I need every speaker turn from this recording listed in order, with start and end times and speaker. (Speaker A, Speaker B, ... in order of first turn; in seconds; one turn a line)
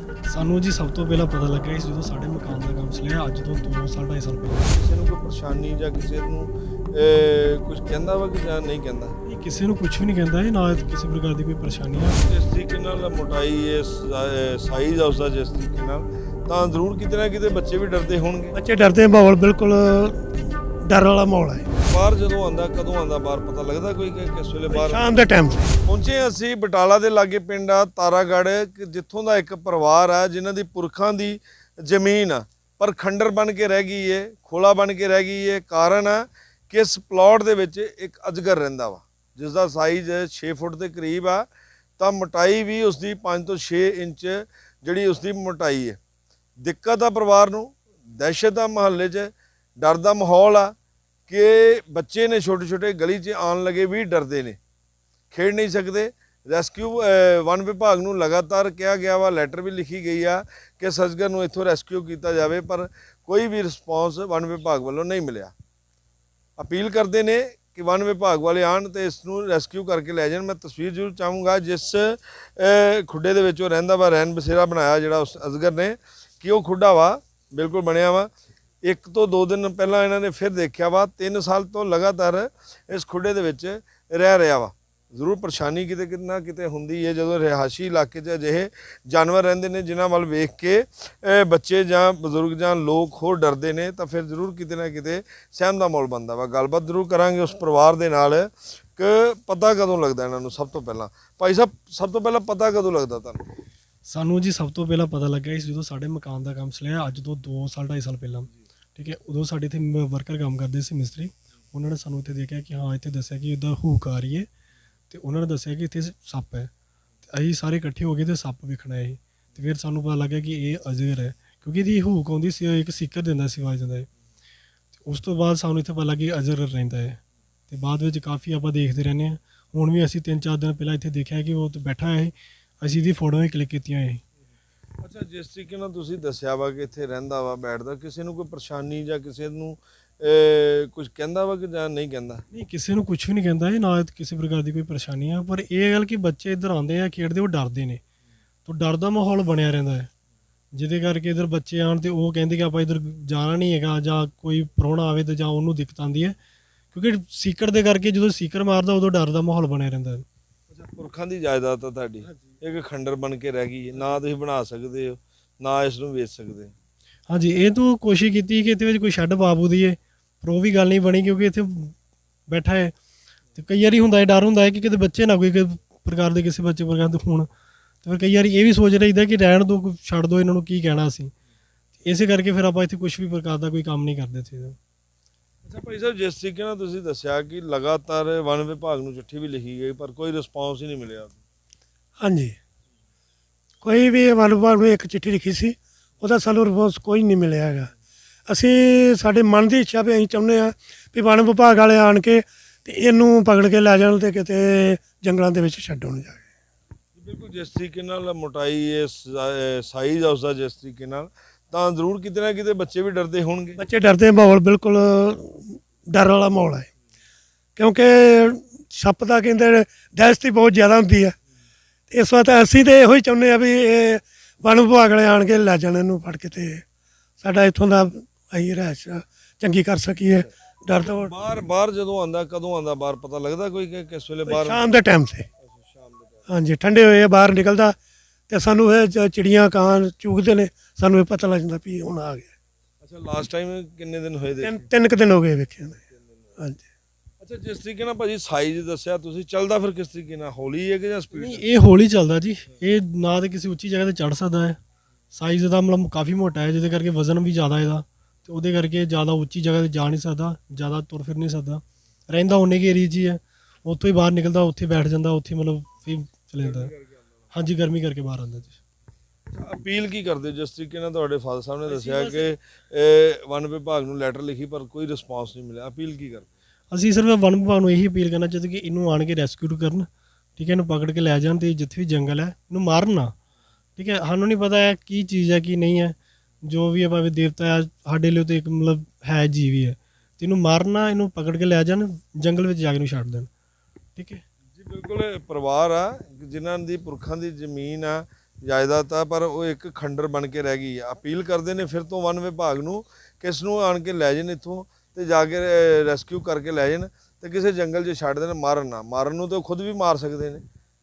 Speaker A: 0.3-4.7
Speaker B: 4.6-9.2
Speaker A: 9.2-12.2
Speaker B: 12.2-18.5
Speaker C: 18.6-20.2
Speaker C: 20.8-21.7
Speaker B: 21.8-25.0
Speaker C: 24.7-25.7
Speaker B: 25.8-41.5
Speaker B: 42.0-46.0
Speaker B: 46.6-50.7
Speaker B: 51.3-54.6
Speaker B: 55.3-65.5
Speaker B: 66.6-78.3
Speaker B: 78.8-103.4
Speaker A: 104.0-114.5
Speaker A: 115.1-116.7
Speaker A: 117.3-124.1
Speaker A: 125.0-134.2
Speaker B: 135.0-142.4
Speaker A: 142.5-148.0
Speaker A: 148.6-150.1
Speaker A: 150.7-156.3
Speaker A: 156.9-160.2
Speaker B: 160.8-166.7
Speaker A: 167.3-171.9
Speaker A: 172.5-172.9
Speaker A: 173.6-177.5
Speaker A: 178.0-181.3
Speaker A: 182.0-184.8
Speaker B: 185.6-191.4
Speaker C: 192.2-192.6
Speaker C: 193.8-197.9
Speaker C: 198.5-206.5
Speaker B: 207.2-213.8
Speaker C: 213.8-216.9
Speaker C: 217.8-221.3
Speaker C: 222.1-226.8
Speaker C: 227.4-231.3
Speaker B: 231.0-234.8
Speaker C: 234.4-235.5
Speaker B: 235.6-236.5
Speaker C: 236.5-237.9
Speaker C: 238.5-242.5
Speaker B: 243.0-244.9
Speaker C: 244.6-246.0
Speaker C: 246.6-246.8
Speaker B: 247.4-251.7
Speaker A: 251.3-254.8
Speaker A: 255.3-266.9
Speaker B: 266.6-267.1
Speaker A: 267.5-268.8
Speaker B: 269.5-276.5
Speaker A: 271.8-272.5
Speaker A: 276.9-283.3
Speaker A: 283.9-293.5
Speaker A: 294.1-294.4
Speaker B: 294.8-310.6